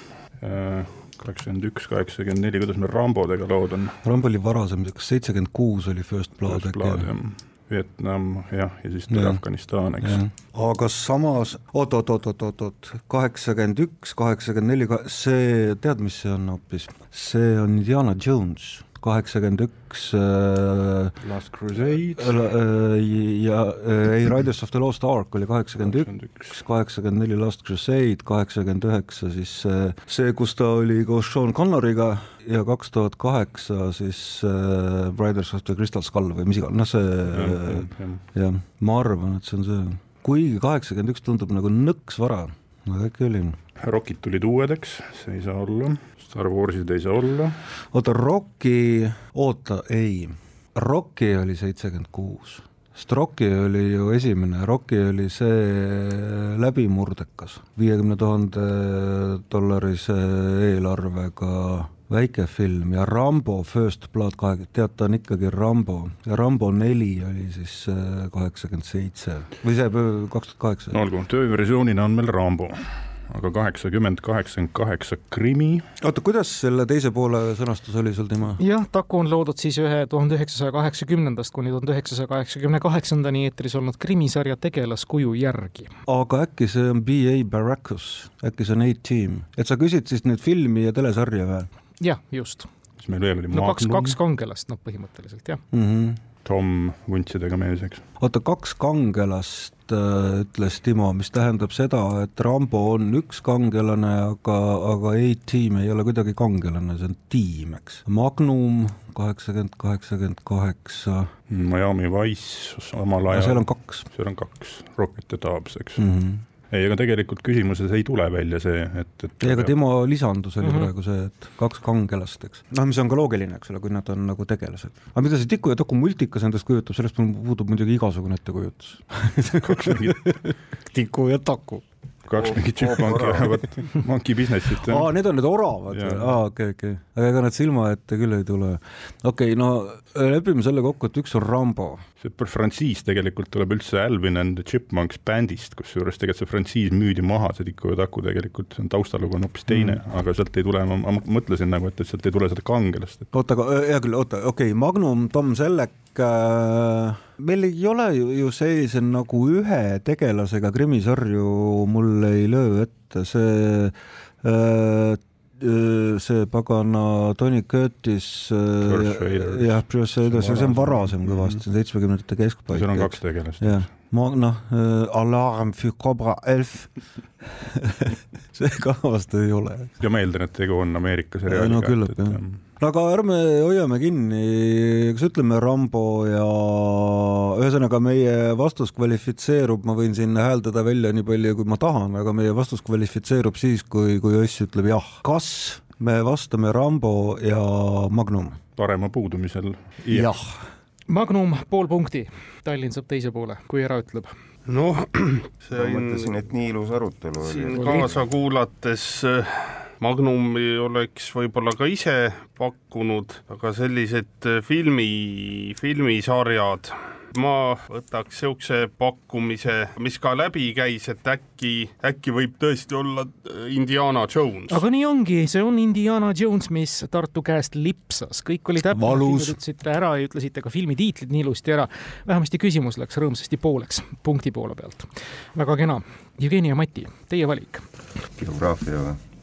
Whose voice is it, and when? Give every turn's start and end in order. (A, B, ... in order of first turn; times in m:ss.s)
0:00.4-0:04.0 A
0:04.0-0:07.1 B
0:06.4-0:10.2 A
0:09.1-0:09.4 B
0:10.0-0:21.2 B
0:21.2-0:22.4 A
0:22.0-0:43.6 B
0:25.8-0:26.5 A
0:37.3-0:38.2 A
0:43.8-0:47.6 A
0:47.9-1:11.0 B
1:10.9-1:15.8 A
1:16.0-1:18.6 B
1:18.6-1:25.9 C
1:26.1-1:31.7 B
1:32.0-1:32.7 C
1:33.0-1:34.2 A
1:33.5-1:35.6 C
1:35.7-1:36.2 B
1:36.4-1:38.0 A
1:38.2-1:51.3 B
1:51.5-1:56.0 A
1:53.3-1:54.0 B
1:56.0-1:56.4 B
1:56.7-1:59.7 A
1:59.4-2:11.8 B
2:09.6-2:10.3 A
2:12.2-2:15.1 A
2:12.4-2:13.6 B
2:14.7-2:22.0 B
2:15.9-2:16.4 A
2:22.2-2:33.3 A
2:29.7-2:30.0 B
2:33.3-2:56.9 B
2:48.8-2:51.6 A
2:52.7-2:53.9 A
2:57.4-3:00.0 B
3:00.0-3:02.6 A
3:01.4-3:18.6 B
3:18.8-3:20.3 A
3:20.1-3:20.6 B
3:21.1-3:24.3 C
3:24.6-3:26.3 D
3:25.7-3:28.2 E
3:27.4-3:44.8 D
3:27.7-3:28.1 C
3:44.7-3:57.8 C
3:48.9-3:49.6 B
3:58.3-3:59.2 E